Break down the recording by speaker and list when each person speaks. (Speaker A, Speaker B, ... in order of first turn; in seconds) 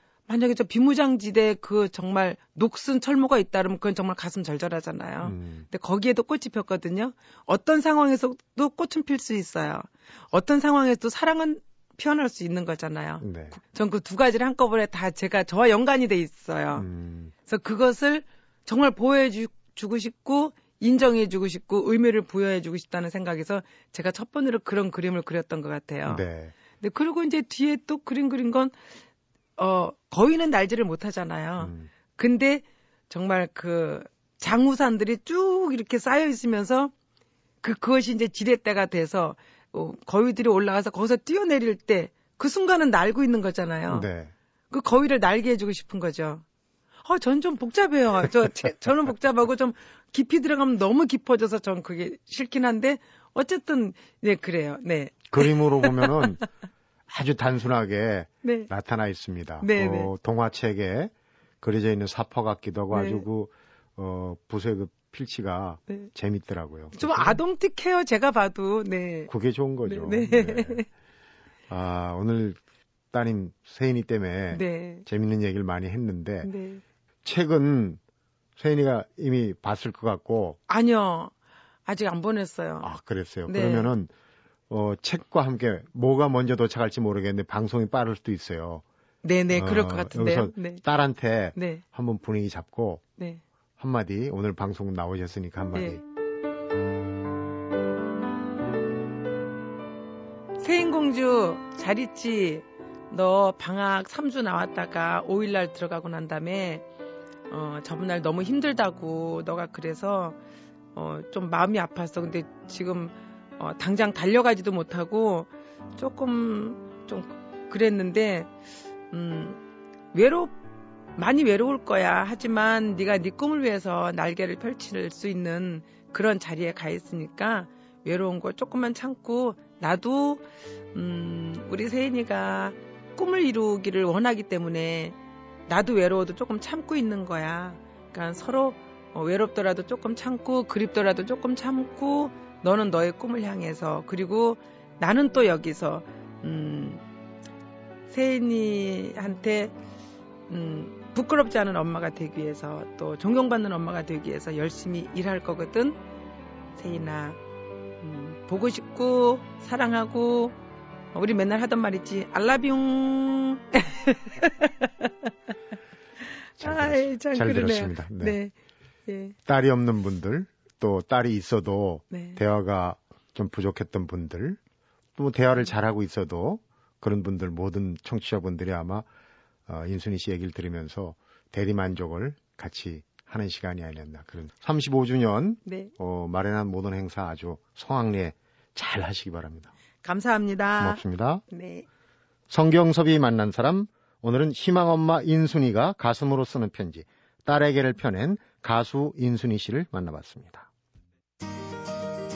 Speaker A: 0.3-16.9, 17.4-26.2, 26.8-28.7, 29.6-36.9, 37.6-44.1, 44.7-46.4, 47.0-56.4, 58.4-58.7, 59.6-60.1, 62.9-63.2, 66.9-69.3, 69.8-70.9, 74.5-75.0, 76.4-76.8, 80.7-81.3, 81.8-82.9, 83.5-83.9, 89.2-90.8, 91.5-91.8, 93.2-93.4, 95.7-96.0, 100.6-106.8, 107.5-110.4, 110.9-118.5, 119.1-119.6, 120.1-120.5, 121.2-147.0, 148.1-149.7, 150.5-156.0, 156.8-157.4, 158.0-160.6, 161.1-165.3, 166.6-168.5, 169.1-169.3, 172.1-172.4, 185.7-185.9, 190.0-191.8
Speaker B: 5.2-5.7, 13.2-13.6, 16.8-17.3, 26.1-26.5, 31.6-31.9, 43.9-44.3, 55.3-56.4, 57.1-67.4, 69.3-70.8, 71.7-72.6, 73.1-76.5, 77.2-78.0, 78.6-80.6, 82.8-84.1, 84.7-88.8, 89.5-93.0, 93.8-96.0, 166.6-168.4, 169.4-174.6, 175.2-179.1, 179.7-189.7, 190.8-191.4, 192.5-200.7